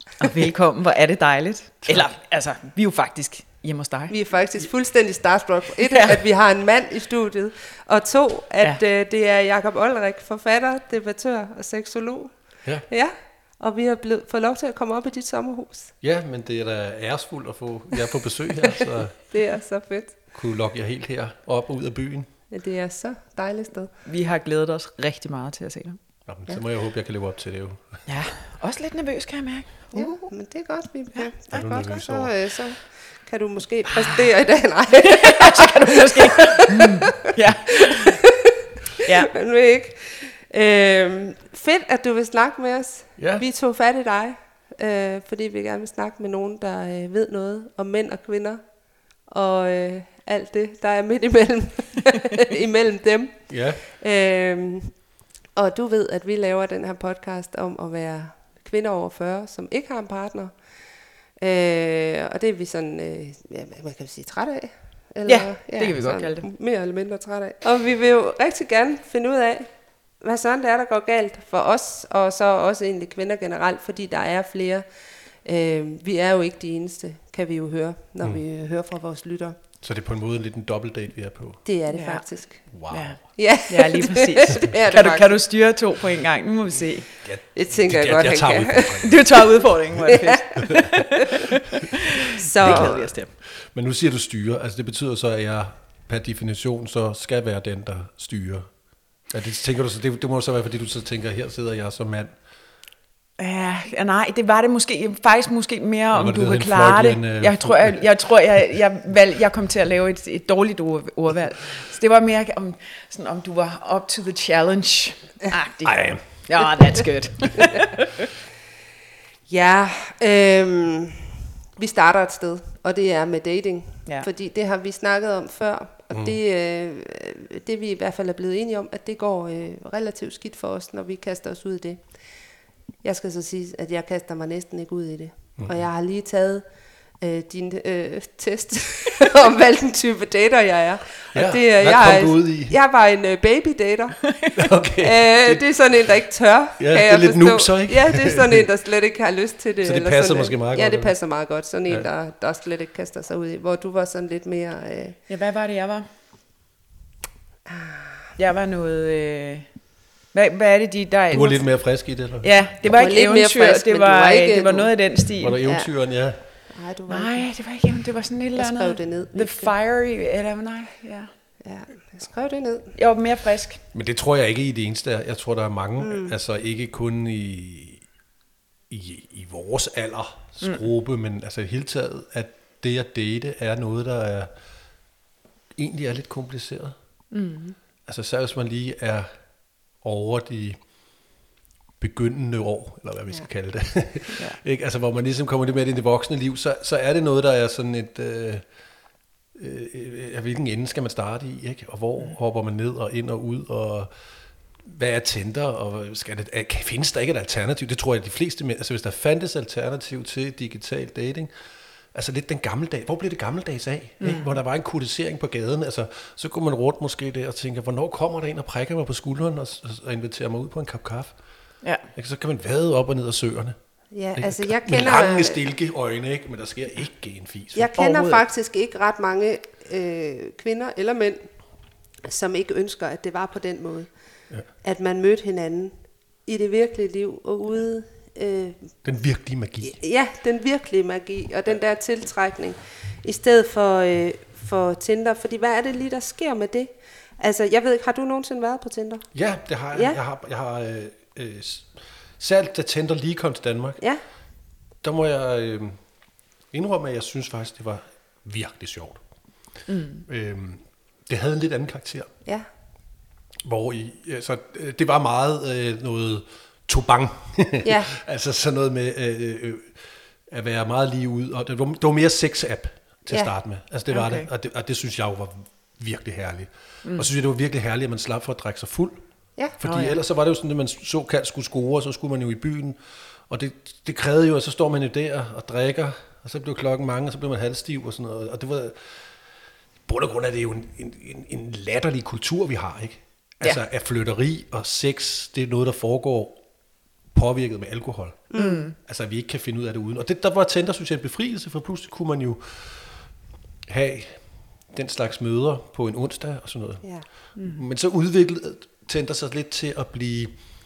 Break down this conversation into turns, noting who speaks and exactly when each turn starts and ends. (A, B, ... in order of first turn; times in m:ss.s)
0:00.2-0:04.2 A
0:04.1-0:15.9 B
0:05.8-0:06.2 A
0:16.0-0:19.2 C
0:19.2-0:20.2 B
0:20.3-0:22.3 C
0:22.5-0:23.9 B
0:24.1-0:26.0 A
0:26.2-0:28.0 C
0:28.1-0:30.3 A
0:29.9-0:37.1 B
0:31.5-0:32.3 C
0:33.9-0:34.2 A
0:35.0-0:38.2 A
0:37.9-0:38.3 B
0:39.0-0:39.3 A
0:39.1-0:48.6 B
0:43.2-0:43.4 C
0:49.2-0:55.0 B
0:53.5-0:53.8 C
0:55.5-1:00.6 B
1:01.4-1:14.9 B
1:05.2-1:06.5 A
1:15.4-1:19.6 B
1:19.8-1:21.6 C
1:21.6-1:22.7 B
1:21.9-1:27.2 A
1:22.7-1:23.2 C
1:23.4-1:25.4 B
1:27.2-1:29.4 C
1:27.5-1:29.1 B
1:29.0-1:33.3 A
1:30.0-1:30.9 C
1:30.1-1:30.6 B
1:32.4-1:33.1 B
1:32.6-1:38.7 C
1:39.2-1:42.3 C
1:43.4-1:58.3 A
1:46.1-1:48.0 C
1:55.8-1:56.6 C
1:59.5-2:01.2 B
2:01.8-2:12.2 B
2:13.0-2:16.6 B
2:15.6-2:15.8 C
2:17.2-2:24.4 B
2:21.3-2:22.8 C
2:24.5-2:25.6 C
2:25.0-2:35.2 B
2:26.8-2:28.6 C
2:29.8-2:31.1 C
2:35.3-2:36.0 A
2:37.7-2:38.2 B
2:38.4-2:39.7 A
2:40.3-2:41.8 A
2:41.3-2:42.5 C
2:42.4-2:45.6 A
2:42.9-2:44.9 B
2:45.4-2:46.4 C
2:46.7-2:47.5 B
2:47.1-2:51.3 A
2:48.6-2:49.7 B
2:51.6-2:52.9 B
2:53.0-2:53.8 A
2:53.9-2:58.0 C
2:56.0-2:56.3 B
2:58.9-3:04.5 C
3:05.8-3:07.0 C
3:07.3-3:07.8 A
3:08.1-3:09.3 C
3:10.0-3:10.8 C
3:12.0-3:18.7 C
3:19.5-3:24.1 C
3:24.8-3:31.5 C
3:32.1-3:41.4 C
3:34.2-3:34.6 A
3:42.1-3:43.8 C
3:44.1-3:45.6 B
3:44.4-3:47.9 C
3:47.8-3:51.5 B
3:48.0-3:48.4 A
3:52.2-3:54.1 B
3:54.8-3:55.9 B
3:56.4-3:58.9 B
3:59.0-4:00.0 C
3:59.9-4:09.2 B
4:09.3-4:14.0 C
4:15.0-4:16.0 C
4:16.7-4:19.2 C
4:19.9-4:20.2 A
4:20.2-4:22.3 C
4:23.6-4:29.9 C
4:27.8-4:28.1 B
4:30.5-4:39.2 C
4:34.1-4:34.5 A
4:39.8-4:43.0 C
4:39.8-4:40.2 A
4:43.5-4:49.0 C
4:50.1-4:56.6 C
4:57.3-5:03.1 C
4:58.5-4:58.8 B
4:58.6-4:59.0 A
5:03.9-5:10.5 C
5:07.6-5:07.8 A